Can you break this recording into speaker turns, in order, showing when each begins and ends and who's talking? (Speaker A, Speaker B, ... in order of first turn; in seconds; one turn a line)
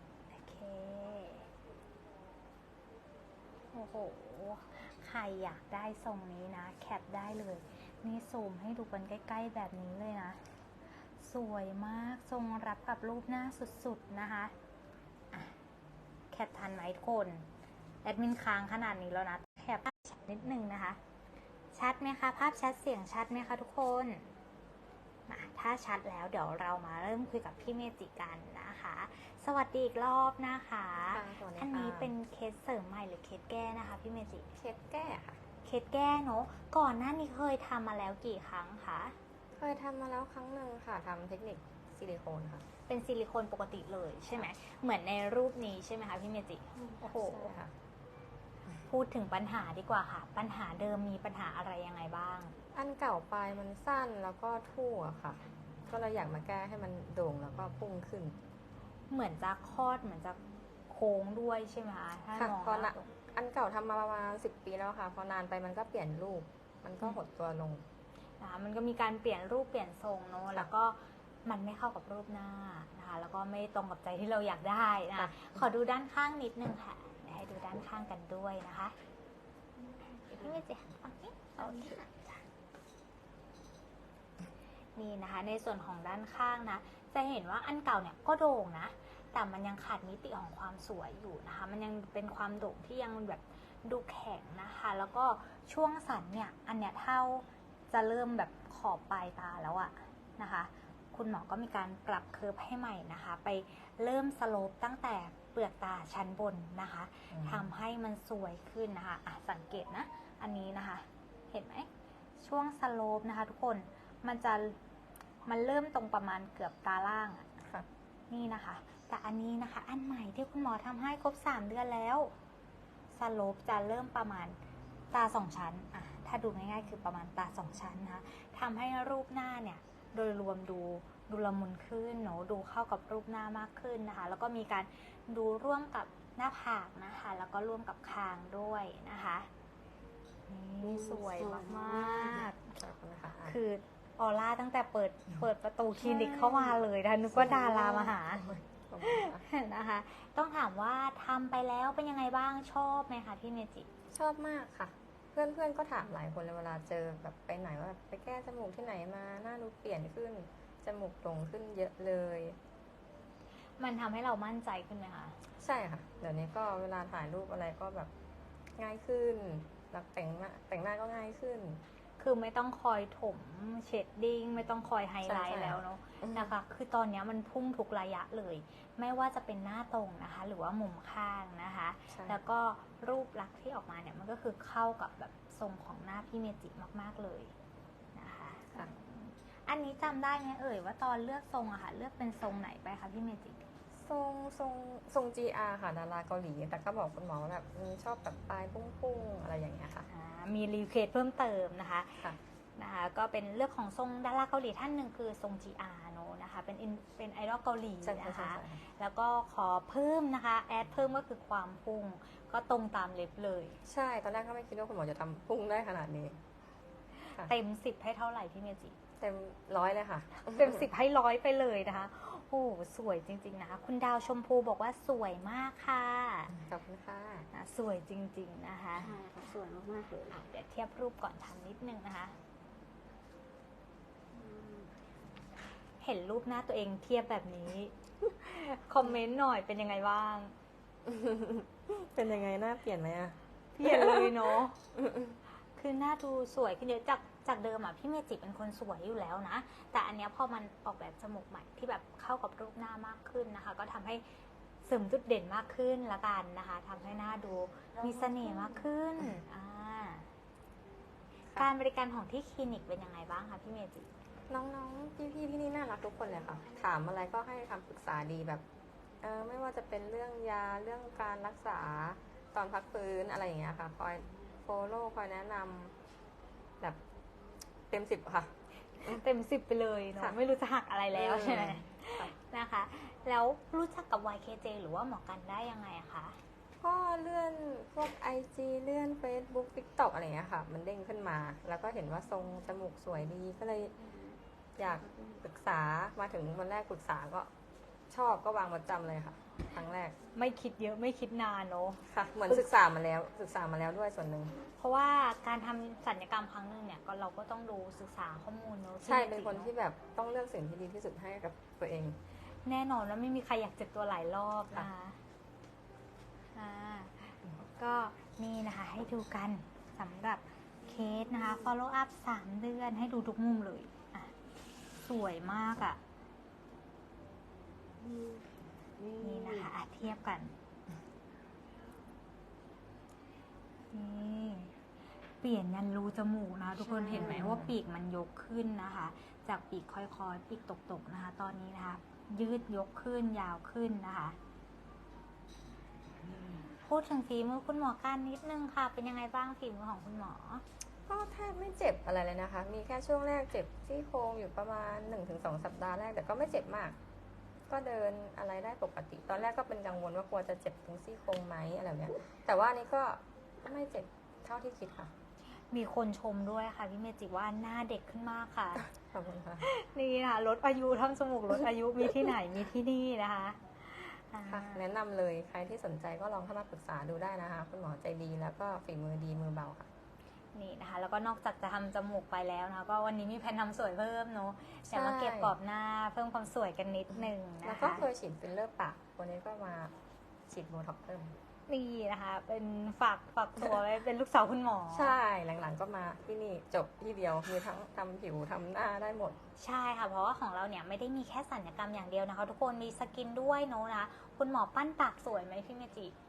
Speaker A: 0.3-1.5
Speaker A: 3.7-10.4
Speaker A: 11.2-14.5
Speaker A: 16.3-17.5
Speaker A: 18.0-21.0
Speaker A: 21.7-24.2
Speaker A: 25.3-34.5
Speaker B: 31.1-32.1
Speaker B: 34.5-35.4
Speaker A: 35.6-39.1
Speaker B: 39.6-42.6
Speaker A: 42.9-47.5
Speaker B: 47.0-47.7
Speaker A: 48.8-52.5
Speaker B: 52.7-58.4
Speaker A: 59.1-60.4
Speaker A: 60.9-63.1
Speaker B: 62.3-67.8
Speaker A: 68.4-78.9
Speaker B: 75.1-75.5
Speaker A: 80.2-82.3
Speaker A: 85.0-111.9
Speaker B: 107.3-107.7
Speaker A: 112.4-114.8
Speaker A: 115.5-117.5
Speaker A: 118.3-122.3
Speaker A: 123.1-124.6
Speaker A: 125.1-139.5
Speaker A: 140.5-142.7
Speaker C: 141.0-142.2
Speaker B: 142.2-143.6
Speaker A: 143.4-148.5
Speaker B: 146.0-146.8
Speaker B: 147.3-149.4
Speaker A: 149.0-153.9
Speaker B: 154.1-162.6
Speaker A: 163.8-165.4
Speaker B: 165.6-168.1
Speaker B: 168.8-171.8
Speaker A: 172.2-187.5
Speaker B: 175.2-176.5
Speaker B: 182.1-182.4
Speaker A: 188.1-193.6
Speaker B: 193.9-200.1
Speaker A: 200.1-213.8
Speaker B: 208.0-208.8
Speaker B: 213.8-216.4
Speaker A: 217.2-218.9
Speaker B: 219.2-220.8
Speaker A: 220.4-226.6
Speaker B: 226.5-227.5
Speaker A: 227.5-229.1
Speaker C: 229.1-230.3
Speaker A: 230.2-232.3
Speaker C: 234.3-234.9
Speaker A: 236.0-240.5
Speaker B: 241.1-245.4
Speaker A: 243.7-244.8
Speaker A: 245.8-254.2
Speaker A: 254.8-260.3
Speaker B: 258.0-258.8
Speaker A: 261.5-264.1
Speaker B: 264.5-268.6
Speaker B: 269.2-275.9
Speaker B: 277.9-278.5
Speaker A: 279.0-286.4
Speaker B: 281.1-282.3
Speaker B: 286.8-294.0
Speaker B: 294.8-297.5
Speaker B: 298.1-300.1
Speaker A: 300.3-302.0
Speaker B: 302.1-304.5
Speaker A: 304.8-309.7
Speaker B: 309.0-312.2
Speaker A: 312.6-315.2
Speaker A: 316.5-324.3
Speaker A: 324.9-326.0
Speaker C: 328.0-328.4
Speaker C: 329.0-329.7
Speaker A: 329.2-330.5
Speaker A: 333.9-334.7
Speaker A: 335.4-344.4
Speaker B: 336.8-337.7
Speaker A: 346.7-350.6
Speaker B: 351.1-356.9
Speaker B: 357.7-365.1
Speaker A: 365.7-368.9
Speaker B: 369.0-369.7
Speaker A: 369.6-374.8
Speaker B: 374.5-379.9
Speaker A: 380.5-388.1
Speaker B: 384.9-385.5
Speaker B: 387.6-389.9
Speaker B: 390.5-391.3
Speaker A: 391.7-395.1
Speaker B: 394.9-399.4
Speaker A: 399.6-406.1